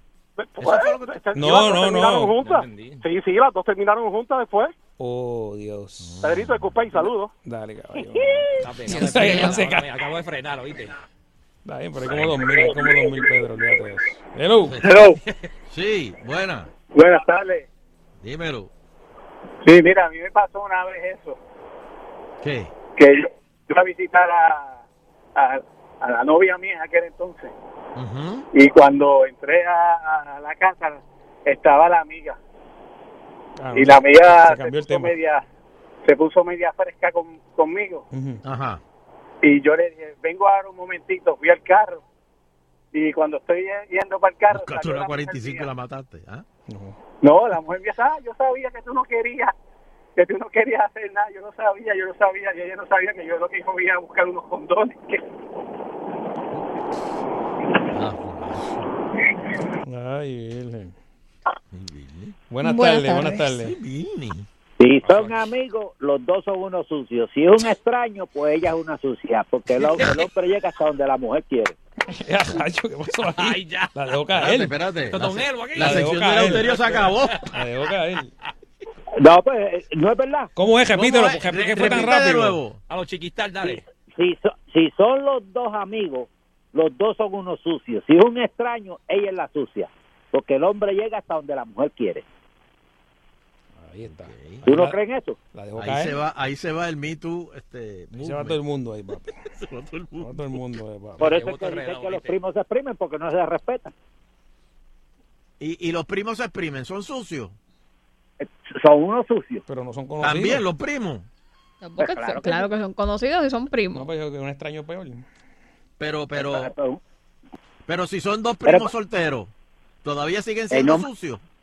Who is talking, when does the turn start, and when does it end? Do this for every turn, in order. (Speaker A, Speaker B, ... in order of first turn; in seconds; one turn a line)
Speaker A: 0.5-4.7
Speaker B: 0.6-1.1
Speaker C: 1.3-2.4
Speaker D: 2.4-3.0
Speaker C: 5.0-6.1
Speaker B: 6.0-6.8
Speaker A: 6.2-7.3
Speaker C: 7.4-9.9
Speaker D: 8.6-10.9
Speaker E: 8.9-9.6
Speaker C: 11.6-14.8
Speaker B: 15.7-16.7
Speaker A: 16.9-17.6
Speaker B: 18.2-18.7
Speaker A: 19.6-21.3
Speaker B: 22.4-22.7
Speaker A: 23.7-24.8
Speaker A: 25.4-27.5
Speaker B: 27.9-28.5
Speaker A: 28.6-32.4
Speaker C: 33.6-35.1
Speaker A: 33.7-35.4
Speaker A: 36.1-38.0
Speaker C: 38.1-38.4
Speaker B: 38.4-38.8
Speaker A: 39.4-42.0
Speaker A: 42.9-45.4
Speaker B: 44.5-46.5
Speaker C: 46.7-47.0
Speaker A: 47.2-49.5
Speaker A: 50.2-55.1
Speaker B: 57.9-58.7
Speaker C: 59.8-60.9
Speaker B: 61.7-62.4
Speaker C: 62.5-63.8
Speaker E: 62.6-63.5
Speaker B: 63.5-64.5
Speaker F: 64.8-71.8
Speaker D: 65.0-65.4
Speaker D: 69.8-70.1
Speaker C: 72.1-74.7
Speaker D: 73.3-73.9
Speaker B: 74.3-77.5
Speaker D: 75.1-77.4
Speaker C: 75.8-76.7
Speaker C: 77.5-78.3
Speaker F: 79.2-80.5
Speaker C: 80.5-82.6
Speaker B: 80.9-82.8
Speaker D: 81.8-82.1
Speaker D: 82.9-83.8
Speaker F: 84.2-92.2
Speaker C: 93.8-95.0
Speaker B: 94.0-94.7
Speaker F: 94.6-95.4
Speaker C: 95.5-96.2
Speaker B: 95.7-98.6
Speaker C: 98.2-99.3
Speaker B: 99.5-100.3
Speaker C: 100.2-101.3
Speaker D: 101.2-102.4
Speaker F: 101.2-103.9
Speaker B: 105.6-107.5
Speaker F: 108.4-109.6
Speaker C: 109.7-110.6
Speaker B: 110.2-111.3
Speaker E: 111.8-114.0
Speaker F: 112.0-112.7
Speaker C: 113.9-115.2
Speaker B: 116.0-116.7
Speaker F: 116.3-117.0
Speaker B: 117.8-119.5
Speaker F: 118.6-118.9
Speaker B: 120.0-121.4
Speaker F: 120.7-121.1